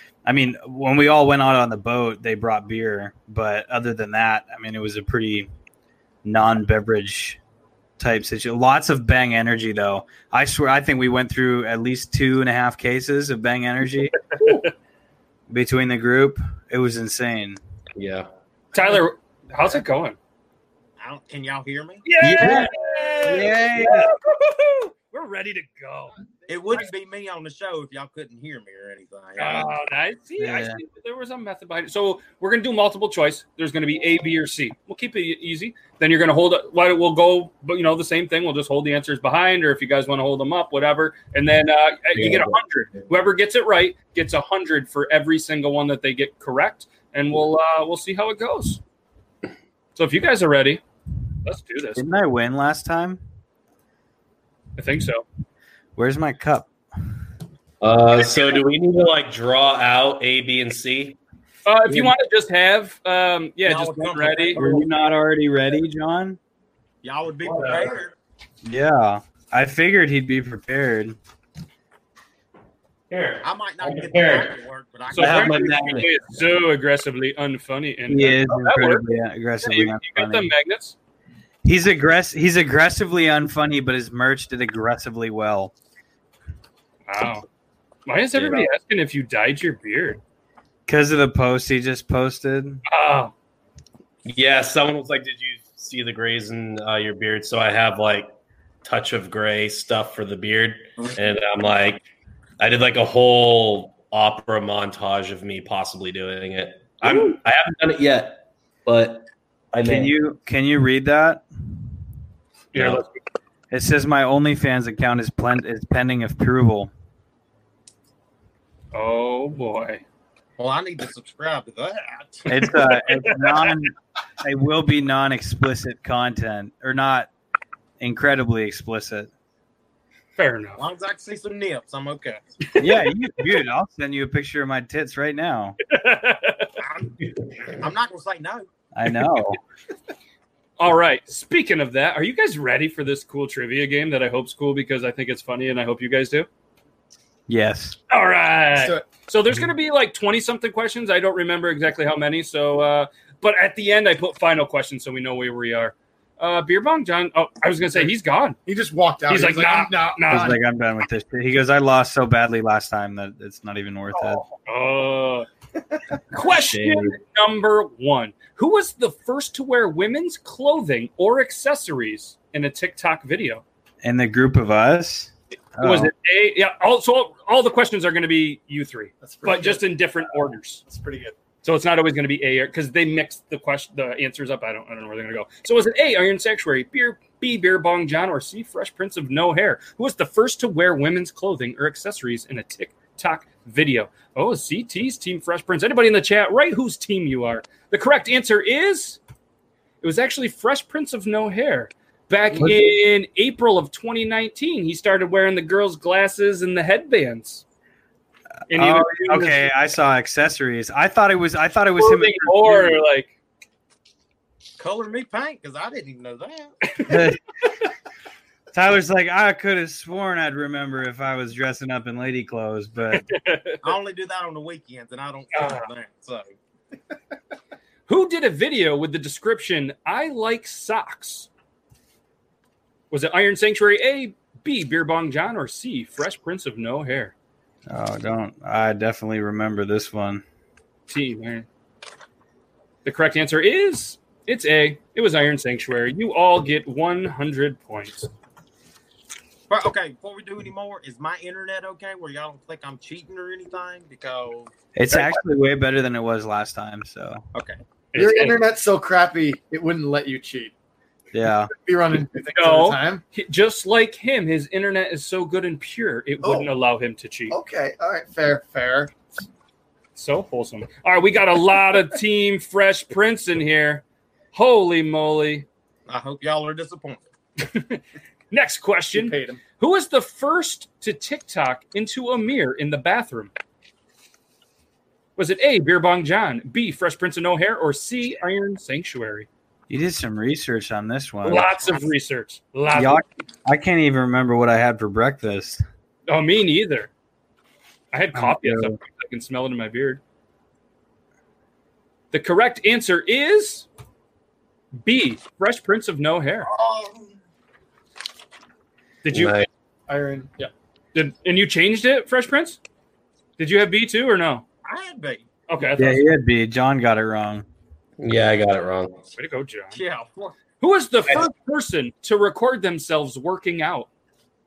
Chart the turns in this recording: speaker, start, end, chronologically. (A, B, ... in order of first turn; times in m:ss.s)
0:00.2-0:05.5 A
0:06.2-0:07.4 A
0:08.0-0:14.2 A
0:14.4-0:14.7 B
0:15.5-0:17.6 A
0:18.0-0:18.3 C
0:18.7-0:20.2 B
0:21.0-0:22.0 D
0:22.0-0:26.2 B
0:22.2-0:24.1 A
0:26.5-0:29.7 D
0:29.4-0:48.8 B
0:30.4-0:30.8 A
0:42.1-0:42.6 C
0:50.0-0:50.8 B
0:51.4-0:52.0 B
0:52.0-0:53.2 A
0:54.8-0:55.2 B
0:56.0-0:56.7 A
0:57.8-1:01.2 C
1:01.6-1:04.6 B
1:03.6-1:04.9 D
1:04.6-1:06.4 A
1:07.0-1:08.1 D
1:07.4-1:07.9 C
1:08.6-1:11.2 A
1:13.1-1:14.6 C
1:13.4-1:15.8 D
1:15.1-1:19.0 B
1:15.2-1:16.2 C
1:18.1-1:20.5 A
1:19.6-1:21.0 B
1:21.6-1:25.7 A
1:27.1-1:27.4 B
1:28.0-1:30.2 B
1:28.4-1:28.6 C
1:30.9-1:32.8 A
1:32.9-1:33.3 B
1:34.2-1:38.3 C
1:38.8-1:42.0 C
1:42.6-1:50.2 C
1:47.0-1:47.4 B
1:49.8-1:51.4 A
1:52.7-1:53.0 B
1:52.8-1:53.0 C
1:52.8-1:53.0 A
1:53.7-1:56.9 A
1:58.9-2:00.0 B
2:00.6-2:02.6 D
2:02.5-2:07.3 A
2:03.0-2:03.8 B
2:08.0-2:09.3 A
2:10.4-2:10.8 B
2:10.8-2:12.4 D
2:12.8-2:15.8 A
2:15.9-2:16.7 B
2:16.8-2:18.6 D
2:18.9-2:19.6 A
2:20.8-2:26.5 B
2:27.5-2:28.0 A
2:28.1-2:38.6 B
2:28.8-2:29.0 E
2:38.6-2:40.4 E
2:39.3-2:40.6 B
2:40.3-2:44.4 A
2:44.1-2:45.5 B
2:46.3-2:53.6 B
2:46.7-2:47.0 C
2:54.0-2:56.1 A
2:55.8-3:00.8 B
2:59.2-3:00.0 E
3:00.8-3:01.4 E
3:01.6-3:19.2 B
3:20.0-3:27.6 B
3:22.5-3:22.9 A
3:28.7-3:29.7 B
3:28.7-3:33.0 A
3:32.0-3:33.3 B
3:34.8-3:36.8 D
3:36.9-3:37.3 B
3:37.1-3:37.4 A
3:38.7-3:43.2 A
3:43.1-3:43.8 B
3:43.8-3:46.5 D
3:45.5-3:45.9 B
3:48.1-3:51.5 B
3:53.1-3:57.3 B
3:57.9-4:00.4 A
4:01.1-4:01.7 B
4:03.0-4:08.3 B
4:09.7-4:14.7 D
4:14.9-4:17.4 A
4:18.1-4:18.6 B
4:18.1-4:20.7 E
4:21.3-4:21.7 A
4:21.7-4:23.2 E
4:22.5-4:27.6 B
4:26.4-4:26.7 E
4:27.5-4:29.2 E
4:30.1-4:35.6 B
4:36.1-4:37.2 D
4:37.6-4:43.5 B
4:39.1-4:39.6 E
4:45.4-4:49.5 B
4:49.9-4:51.8 A
4:51.4-4:53.2 B
4:52.9-4:55.8 A
4:56.3-4:57.1 B
4:58.1-5:00.2 B
4:58.4-4:59.0 A
5:02.3-5:03.9 B
5:05.0-5:06.7 B
5:06.7-5:07.3 D
5:09.2-5:09.6 B
5:09.3-5:09.7 C
5:10.1-5:10.7 E
5:11.1-5:12.8 B
5:13.6-5:14.6 B
5:14.8-5:15.5 D
5:15.7-5:16.2 B
5:16.0-5:17.6 A
5:18.2-5:19.2 C
5:19.4-5:20.0 B
5:19.9-5:20.6 D
5:20.8-5:24.1 B